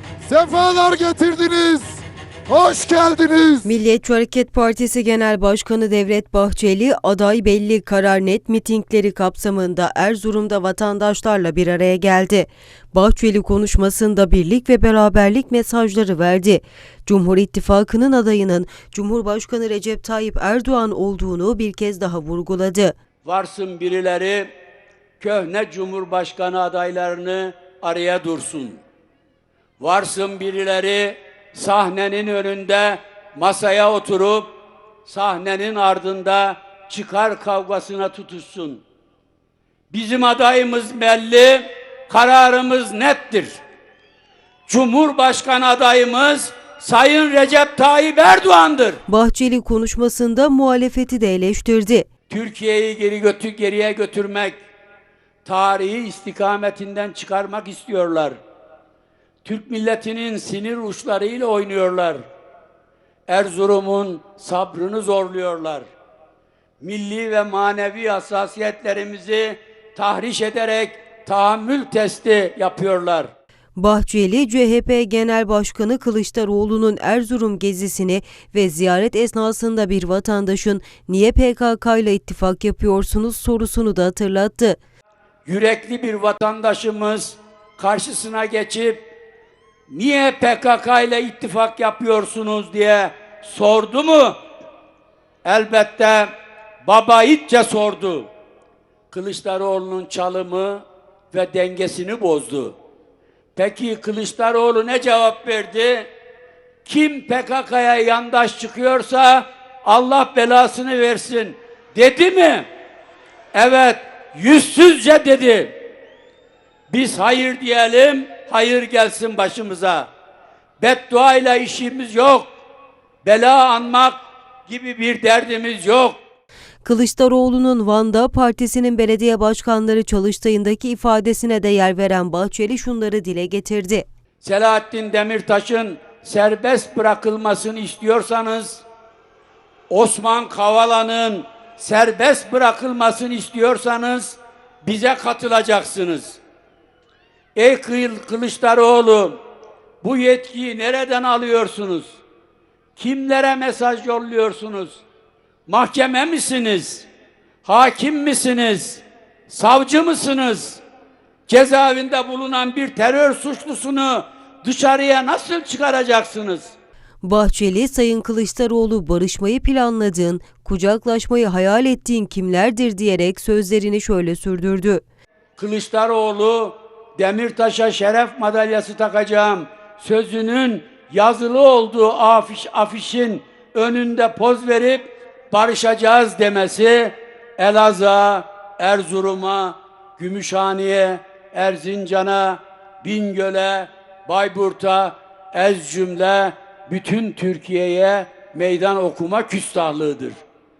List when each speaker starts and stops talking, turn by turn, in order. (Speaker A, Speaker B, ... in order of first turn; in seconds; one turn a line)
Speaker A: 0.2-1.9
Speaker A: 2.5-3.6
Speaker B: 3.7-22.9
Speaker C: 23.2-24.5
Speaker C: 25.2-28.8
Speaker C: 29.8-34.5
Speaker C: 35.0-38.8
Speaker C: 39.9-43.6
Speaker C: 44.7-49.0
Speaker B: 49.1-52.1
Speaker C: 52.3-54.6
Speaker C: 55.4-58.4
Speaker C: 59.4-62.2
Speaker C: 63.3-65.9
Speaker C: 66.8-73.3
Speaker B: 73.8-84.8
Speaker C: 85.5-89.1
Speaker C: 89.9-94.4
Speaker C: 95.4-96.3
Speaker C: 96.8-98.3
Speaker C: 99.1-102.8
Speaker C: 103.5-106.1
Speaker C: 106.8-112.7
Speaker C: 113.5-115.7
Speaker C: 116.9-120.1
Speaker C: 120.8-122.5
Speaker C: 123.2-126.2
Speaker B: 126.8-134.1
Speaker C: 134.4-138.8
Speaker C: 139.9-146.4
Speaker C: 147.6-149.4
Speaker C: 150.0-152.2
Speaker C: 153.0-155.0
Speaker C: 155.7-157.1
Speaker C: 157.6-160.8
Speaker C: 161.5-166.7
Speaker B: 167.2-175.0
Speaker C: 175.6-200.4